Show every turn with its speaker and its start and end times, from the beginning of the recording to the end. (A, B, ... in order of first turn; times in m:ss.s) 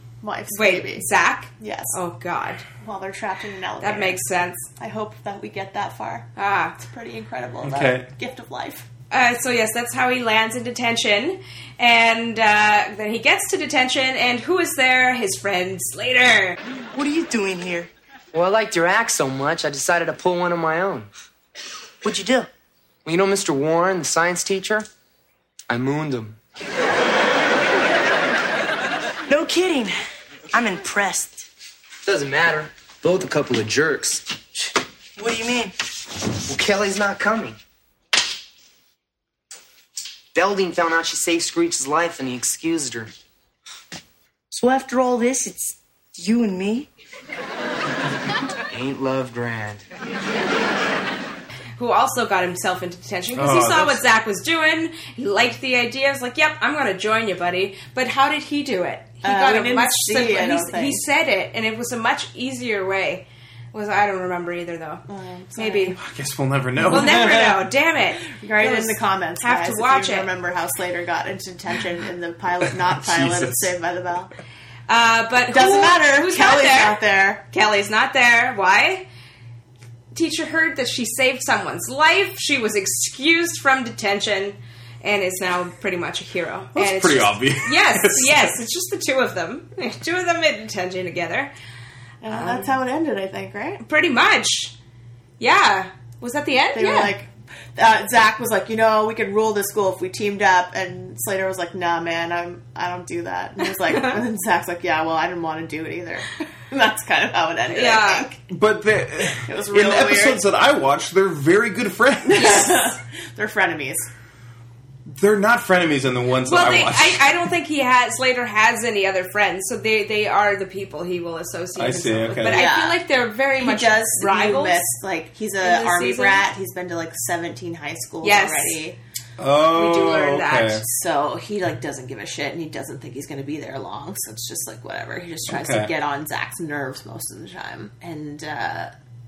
0:00.2-0:01.0 A
0:00.5-0:02.6 B
0:01.6-0:02.0 A
0:02.8-0:08.9 A
0:03.8-0:04.7 B
0:06.4-0:06.8 B
0:07.6-0:08.1 C
0:09.1-0:16.6 B
0:16.9-0:17.9 D
0:18.3-0:21.1 E
0:22.0-0:22.5 D
0:23.0-0:24.9 E
0:25.7-0:26.4 E
0:29.3-0:30.0 D
0:30.5-0:31.5 D
0:32.0-0:34.2 E
0:35.2-0:35.7 D
0:36.4-0:37.6 E
0:40.3-0:43.1 E
0:44.5-0:46.9 D
0:48.7-0:49.8 E
0:51.8-1:05.0 B
0:53.4-0:54.0 C
0:59.2-1:01.0 A
1:05.1-1:06.0 A
1:05.6-1:06.0 B
1:06.0-1:07.6 C
1:06.9-1:07.6 A
1:06.9-1:10.3 B
1:08.3-1:14.3 A
1:12.6-1:13.7 C
1:14.9-1:19.1 B
1:15.5-1:17.4 A
1:20.1-1:31.5 B
1:26.7-1:28.6 C
1:32.2-1:33.8 A
1:32.3-1:32.7 B
1:33.8-1:34.7 B
1:35.4-1:37.1 B
1:36.7-1:48.4 A
1:43.9-1:44.2 B
1:47.7-1:48.3 B
1:48.5-1:52.7 C
1:49.3-1:50.4 A
1:52.2-1:54.1 A
1:52.4-1:52.7 B
1:55.1-1:57.4 C
1:56.4-2:04.8 B
2:01.8-2:02.6 C
2:02.5-2:03.0 A
2:03.6-2:09.0 A
2:05.6-2:06.4 B
2:08.2-2:08.8 B
2:09.4-2:10.8 C
2:09.7-2:10.8 B
2:10.8-2:18.9 A
2:15.5-2:15.9 C